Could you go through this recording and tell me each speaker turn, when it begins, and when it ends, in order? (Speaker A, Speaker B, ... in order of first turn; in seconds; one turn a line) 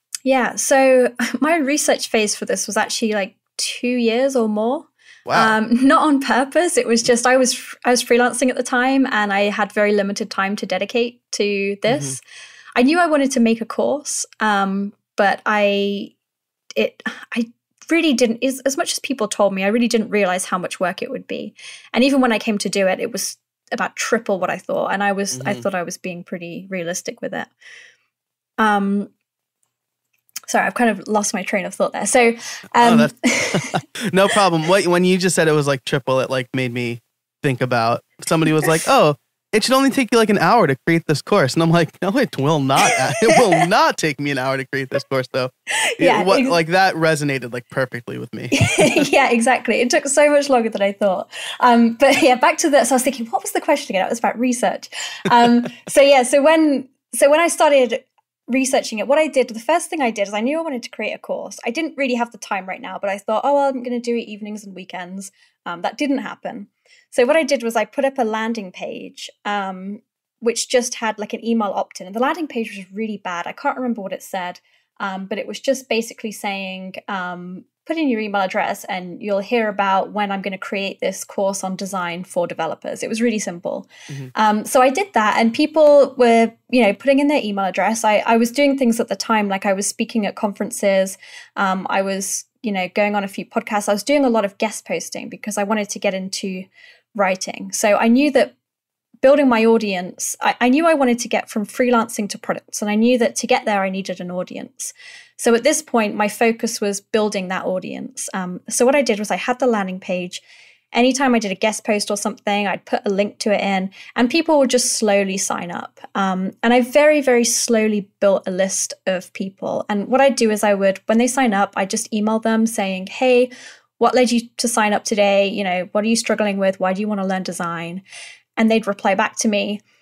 Speaker A: 0.2-12.2
Speaker B: 5.2-5.5
Speaker B: 11.9-12.2
Speaker A: 12.8-16.1
Speaker A: 16.8-27.5
Speaker B: 25.3-25.6
Speaker A: 28.6-29.1
Speaker A: 30.5-33.8
Speaker B: 32.8-49.1
Speaker A: 42.8-43.6
Speaker A: 45.8-46.6
Speaker A: 48.5-98.5
Speaker A: 99.2-110.4
Speaker A: 110.9-128.0
Speaker A: 128.6-129.8